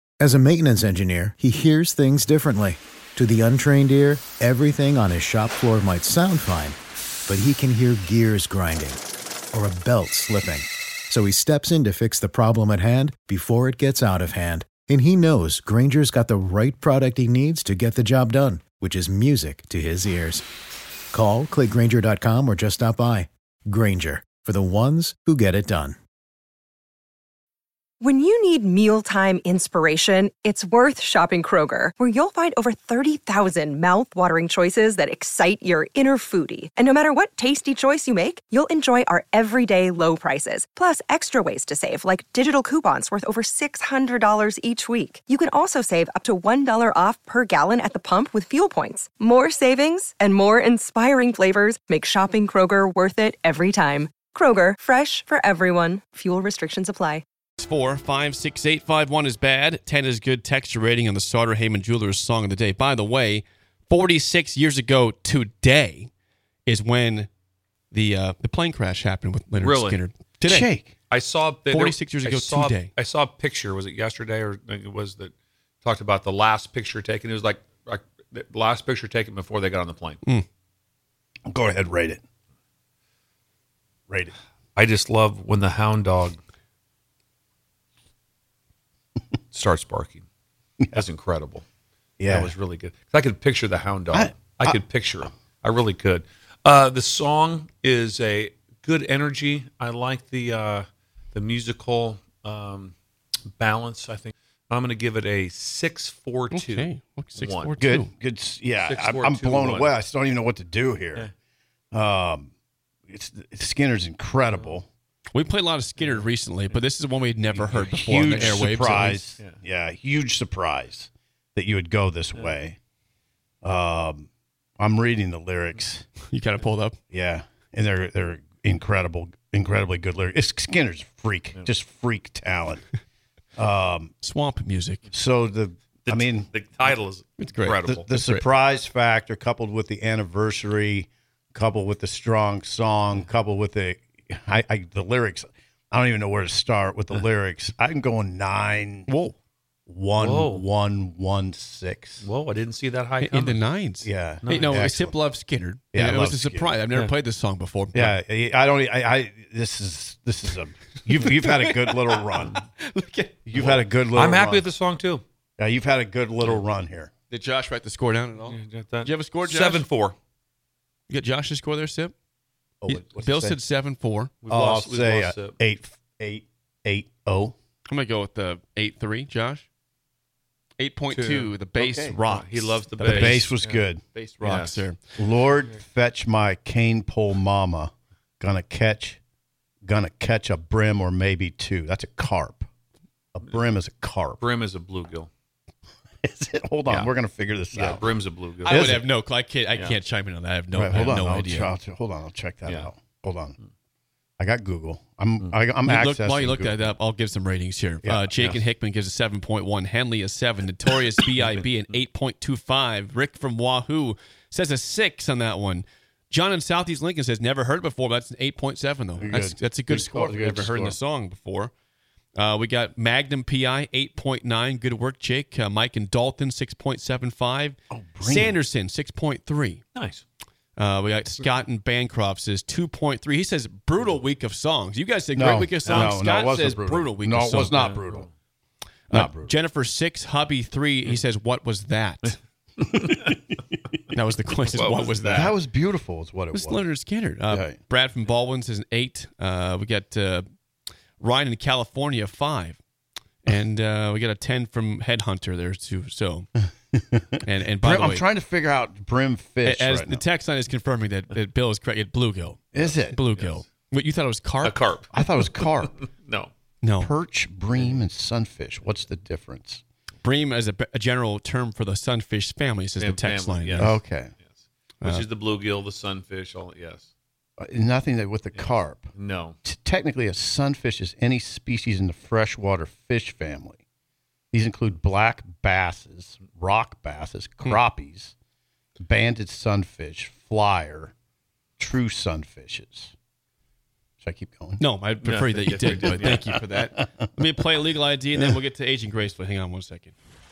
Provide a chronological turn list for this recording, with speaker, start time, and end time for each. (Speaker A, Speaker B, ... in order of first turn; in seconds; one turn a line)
Speaker A: 0.2-6.8
Speaker A: 7.3-9.0
Speaker A: 9.5-20.4
Speaker A: 21.1-25.9
Speaker B: 28.0-57.2
Speaker C: 57.6-66.1
Speaker C: 66.7-67.3
Speaker C: 67.9-70.7
Speaker D: 69.6-70.0
Speaker E: 70.4-70.9
Speaker D: 71.1-80.2
Speaker C: 71.7-72.9
Speaker E: 81.5-82.2
Speaker E: 84.1-84.3
Speaker D: 84.7-86.4
Speaker D: 89.5-90.2
Speaker D: 90.9-91.6
Speaker E: 92.2-92.5
Speaker D: 92.3-102.9
Speaker E: 94.1-94.8
Speaker D: 103.6-107.8
Speaker C: 106.5-108.1
Speaker E: 107.8-111.3
Speaker D: 108.8-109.9
Speaker E: 111.9-112.5
Speaker E: 113.1-114.9
Speaker D: 114.5-114.8
Speaker C: 115.3-119.3
Speaker D: 116.0-116.8
Speaker E: 117.5-122.8
Speaker E: 123.6-124.3
Speaker E: 124.8-126.0
Speaker C: 126.3-127.0
Speaker E: 127.1-132.8
Speaker E: 133.6-134.1
Speaker C: 134.2-135.0
Speaker E: 135.1-136.6
Speaker D: 136.0-138.1
Speaker C: 137.4-138.4
Speaker E: 137.8-149.3
Speaker E: 149.9-152.2
Speaker D: 150.2-150.6
Speaker D: 152.2-153.7
Speaker C: 153.2-158.1
Speaker E: 154.0-155.2
Speaker D: 154.4-154.8
Speaker E: 155.9-156.7
Speaker E: 157.9-162.6
Speaker C: 161.2-163.5
Speaker E: 163.4-164.7
Speaker D: 163.5-165.2
Speaker E: 165.6-167.1
Speaker C: 167.3-169.9
Speaker D: 168.4-170.2
Speaker C: 171.1-172.1
Speaker E: 172.8-173.6
Speaker C: 172.9-174.4
Speaker D: 174.4-175.6
Speaker E: 174.5-177.5
Speaker C: 177.9-179.6
Speaker C: 180.8-185.0
Speaker D: 181.1-183.9
Speaker E: 181.8-182.2
Speaker E: 183.0-184.0
Speaker D: 184.4-184.9
Speaker E: 185.2-189.2
Speaker E: 189.8-192.7
Speaker E: 193.3-194.4
Speaker D: 194.4-195.3
Speaker E: 196.2-198.1
Speaker D: 197.7-199.0
Speaker C: 198.6-201.7
Speaker E: 198.6-199.0
Speaker D: 199.7-200.0
Speaker E: 200.7-203.6
Speaker D: 202.6-202.9
Speaker E: 204.4-206.9
Speaker C: 205.8-221.7
Speaker E: 208.0-208.3
Speaker E: 219.2-220.9
Speaker C: 222.4-229.8
Speaker E: 227.9-228.6
Speaker D: 229.9-230.2
Speaker C: 230.8-237.8
Speaker E: 235.3-238.3
Speaker D: 235.8-236.1
Speaker D: 237.7-238.2
Speaker C: 239.1-242.3
Speaker E: 239.1-239.5
Speaker D: 242.8-243.3
Speaker C: 244.1-245.6
Speaker D: 244.7-245.4
Speaker E: 245.3-246.8
Speaker C: 246.5-250.4
Speaker E: 247.5-247.8
Speaker C: 251.2-252.8
Speaker C: 253.4-256.5
Speaker E: 256.9-257.2
Speaker C: 257.4-258.2
Speaker E: 257.8-260.2
Speaker C: 259.6-264.9
Speaker E: 262.7-263.2
Speaker D: 263.3-263.6
Speaker D: 264.6-266.5
Speaker E: 265.1-265.9
Speaker C: 266.8-267.1
Speaker E: 267.0-269.8
Speaker D: 267.7-268.0
Speaker C: 270.2-274.0
Speaker D: 273.0-277.1
Speaker E: 273.8-274.3
Speaker C: 275.0-275.3
Speaker E: 277.6-279.1
Speaker D: 278.5-279.6
Speaker E: 279.6-283.8
Speaker E: 284.5-288.3
Speaker E: 289.0-291.1
Speaker E: 291.8-293.1
Speaker E: 294.2-294.8
Speaker C: 294.8-300.1
Speaker D: 295.2-296.4
Speaker E: 295.9-297.1